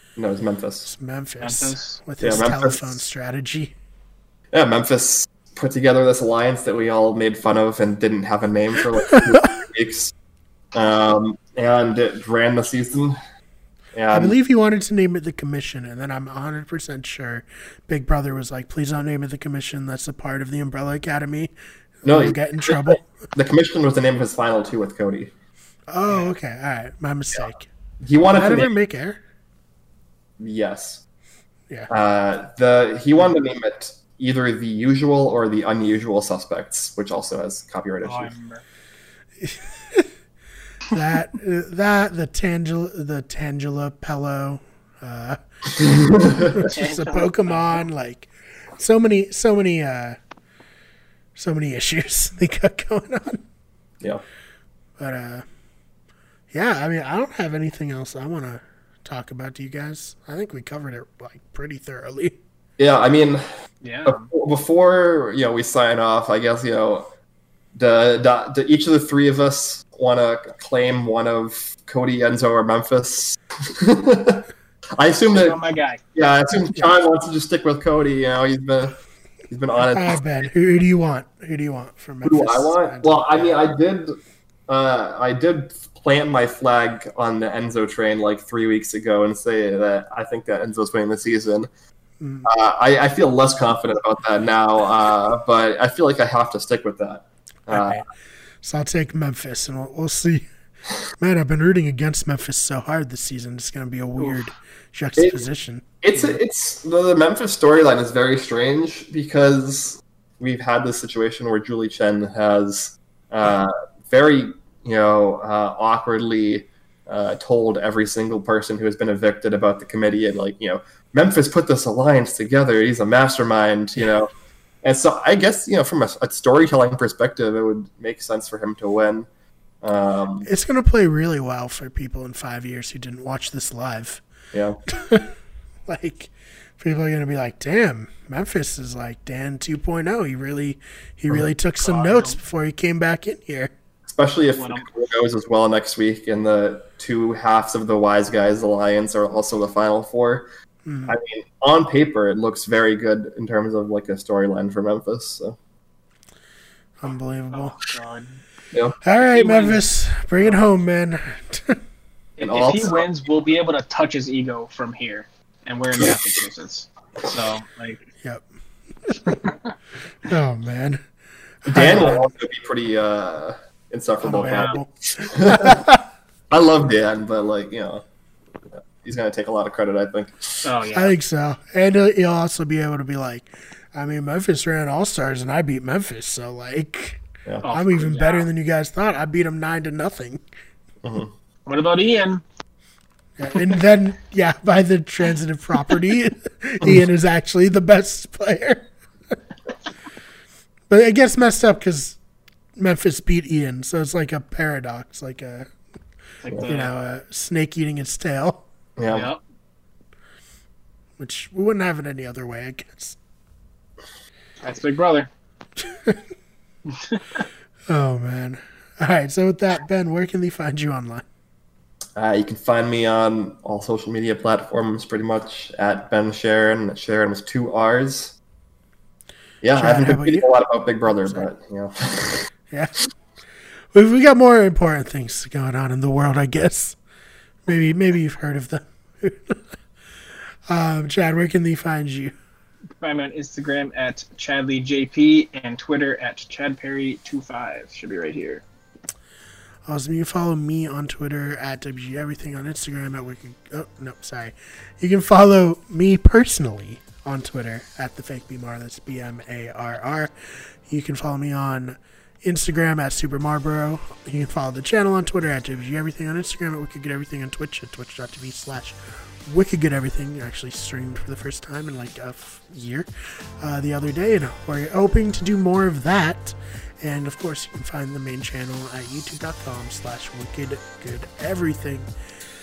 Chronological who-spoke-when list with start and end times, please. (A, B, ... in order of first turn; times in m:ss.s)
0:00.2-0:00.9 A
0:00.9-0:03.7 B
0:01.4-0:02.0 C
0:02.2-0:03.0 A
0:04.5-0:10.1 A
0:10.7-0:13.2 A
0:13.9-0:14.4 A
0:14.1-0:23.0 B
0:22.0-0:25.3 A
0:25.9-0:27.7 B
0:28.0-0:28.7 A
0:28.3-0:29.2 B
0:30.4-0:31.0 A
0:31.9-0:38.3 A
0:38.0-0:38.6 C
0:39.4-0:40.1 B
0:40.9-0:45.4 B
0:45.8-0:46.6 A
0:46.3-0:50.2 B
0:46.7-0:47.8 C
0:51.4-0:53.4 B
0:55.0-0:55.4 B
0:56.5-1:02.4 B
1:02.8-1:03.5 A
1:03.8-1:04.3 C
1:04.1-1:07.1 A
1:07.8-1:14.4 A
1:15.0-1:15.6 A
1:15.3-1:16.0 C
1:16.1-1:20.4 A
1:19.8-1:23.5 B
1:22.2-1:24.1 A
1:24.7-1:31.7 A
1:32.2-1:32.5 B
1:32.4-1:38.0 A
1:37.7-1:38.0 B
1:38.6-1:40.4 B
1:41.2-1:46.4 B
1:45.2-1:45.4 A
1:46.0-2:04.3 A
2:04.8-2:09.3 A
2:09.8-2:10.5 A
2:10.4-2:14.2 B
2:14.5-2:14.8 A
2:14.9-2:15.4 B
2:15.9-2:23.7 B
2:21.8-2:22.4 C
2:24.1-2:30.5 A
2:24.6-2:24.9 C
2:30.9-2:31.2 B
2:31.1-2:35.6 A
2:37.0-2:37.8 B
2:37.5-2:38.4 C
2:39.0-2:41.8 B
2:39.2-2:39.8 C
2:42.4-2:48.0 C
2:42.4-2:43.0 A
2:49.0-2:49.4 B
2:49.3-2:49.7 C
2:50.2-2:51.0 B
2:51.6-2:52.3 B
2:51.7-2:55.9 A
2:54.2-2:56.0 B
2:56.5-2:58.0 A
2:58.7-3:00.7 A
3:00.6-3:01.1 C
3:00.9-3:10.4 B
3:07.6-3:08.5 C
3:11.0-3:11.3 A
3:11.6-3:12.4 C
3:13.4-3:19.4 B
3:20.9-3:22.2 B
3:22.8-3:25.7 B
3:26.4-3:26.9 C
3:26.6-3:28.6 B
3:29.0-3:29.3 A
3:29.1-3:29.4 C
3:31.2-3:33.2 B
3:34.6-3:35.3 C
3:35.9-3:36.2 B
3:36.9-3:37.4 C
3:37.9-3:41.2 B
3:42.2-3:48.4 A
3:49.6-3:52.5 A
3:49.8-3:50.5 B
3:52.7-3:53.0 B
3:53.9-3:57.0 B
3:57.6-3:59.8 B
4:00.7-4:02.3 B
4:03.0-4:08.6 C
4:09.9-4:33.1 B
4:33.6-4:42.1 B